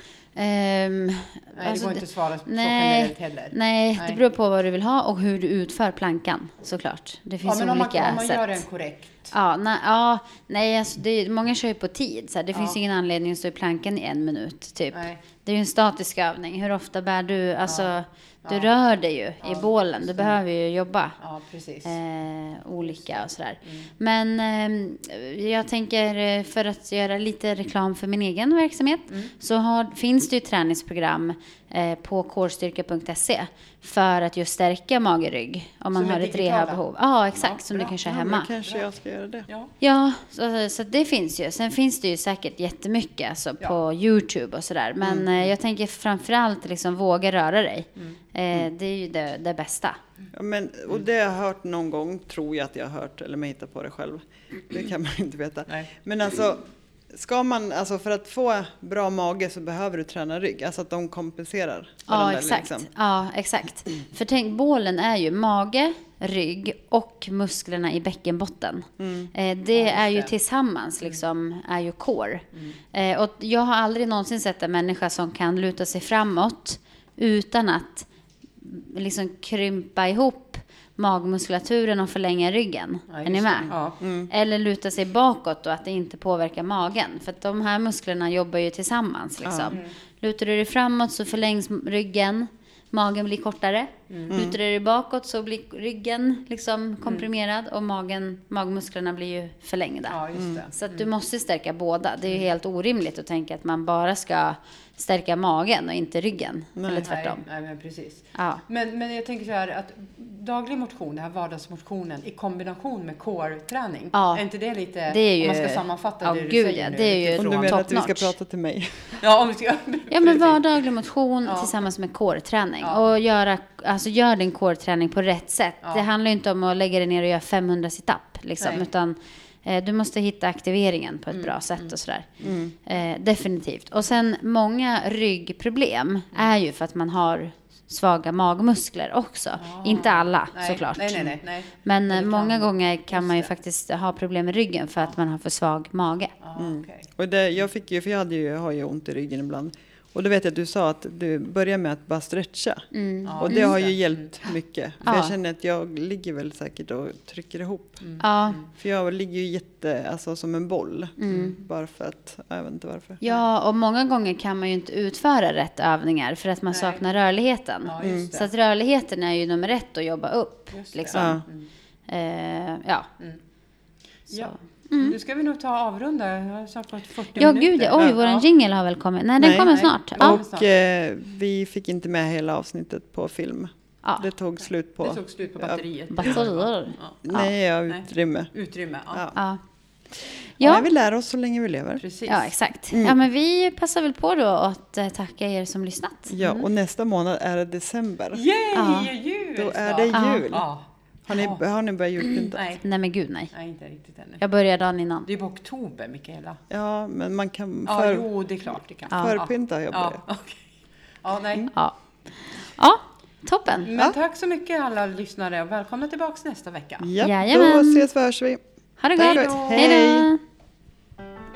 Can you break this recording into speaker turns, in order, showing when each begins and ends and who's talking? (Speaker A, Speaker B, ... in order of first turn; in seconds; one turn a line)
Speaker A: 0.4-8.6
Speaker B: 1.5-4.2
Speaker B: 7.4-9.3
Speaker A: 9.3-21.2
Speaker B: 12.5-12.8
Speaker B: 14.9-15.2
Speaker B: 17.6-17.9
Speaker B: 18.4-18.7
Speaker B: 19.4-20.4
Speaker B: 21.2-22.0
Speaker A: 21.9-38.5
Speaker B: 22.8-23.9
Speaker B: 35.9-36.8
Speaker C: 37.7-39.5
Speaker A: 39.8-50.0
Speaker C: 45.0-45.3
Speaker C: 50.3-62.9
Speaker A: 62.1-78.1
Speaker C: 69.0-69.3
Speaker B: 69.7-70.3
Speaker A: 78.6-107.4
Speaker B: 83.1-84.0
Speaker C: 83.7-84.3
Speaker C: 89.5-89.8
Speaker B: 89.7-90.0
Speaker B: 94.1-94.4
Speaker C: 94.3-94.6
Speaker B: 100.1-101.1
Speaker C: 106.8-107.1
Speaker B: 107.0-117.8
Speaker A: 108.3-108.6
Speaker A: 114.1-114.5
Speaker A: 115.1-118.3
Speaker C: 117.4-119.2
Speaker B: 119.2-120.6
Speaker A: 120.1-146.4
Speaker B: 121.4-121.7
Speaker B: 122.8-123.1
Speaker B: 125.8-126.1
Speaker B: 128.6-128.9
Speaker B: 131.3-131.9
Speaker C: 132.4-132.7
Speaker B: 139.6-143.5
Speaker B: 146.4-147.1
Speaker C: 146.6-152.9
Speaker A: 152.9-153.8
Speaker B: 153.2-154.3
Speaker C: 153.4-158.0
Speaker A: 155.0-155.3
Speaker B: 158.0-158.7
Speaker A: 158.2-158.6
Speaker C: 158.7-163.2
Speaker A: 161.2-161.6
Speaker A: 163.2-171.4
Speaker B: 166.7-167.0
Speaker B: 167.8-168.5
Speaker C: 168.0-168.3
Speaker B: 170.7-171.7
Speaker C: 171.1-171.4
Speaker A: 172.1-173.1
Speaker B: 174.3-178.5
Speaker A: 174.4-175.2
Speaker A: 177.4-180.4
Speaker C: 179.4-186.4
Speaker B: 179.5-180.7
Speaker B: 185.0-187.2
Speaker A: 186.1-187.5
Speaker C: 187.2-188.5
Speaker B: 187.9-189.3
Speaker C: 189.1-189.4
Speaker A: 189.3-189.6
Speaker A: 190.6-190.9
Speaker C: 190.6-192.0
Speaker B: 192.0-192.5
Speaker A: 192.3-196.4
Speaker C: 192.9-193.2
Speaker C: 196.3-198.4
Speaker B: 196.4-196.7
Speaker B: 198.3-201.6
Speaker A: 198.8-199.1
Speaker C: 199.6-200.7
Speaker A: 200.1-200.5
Speaker C: 201.3-202.6
Speaker A: 202.3-203.5
Speaker B: 202.5-202.8
Speaker B: 203.5-204.4
Speaker A: 204.4-205.3
Speaker B: 205.3-206.6
Speaker C: 206.7-208.3
Speaker B: 207.9-210.6
Speaker C: 209.1-210.2
Speaker A: 209.1-209.4
Speaker B: 211.2-211.7
Speaker A: 212.5-213.9
Speaker B: 213.8-217.1
Speaker C: 217.0-218.6
Speaker A: 217.2-218.1
Speaker A: 219.0-220.4
Speaker C: 219.1-220.3
Speaker B: 219.2-220.1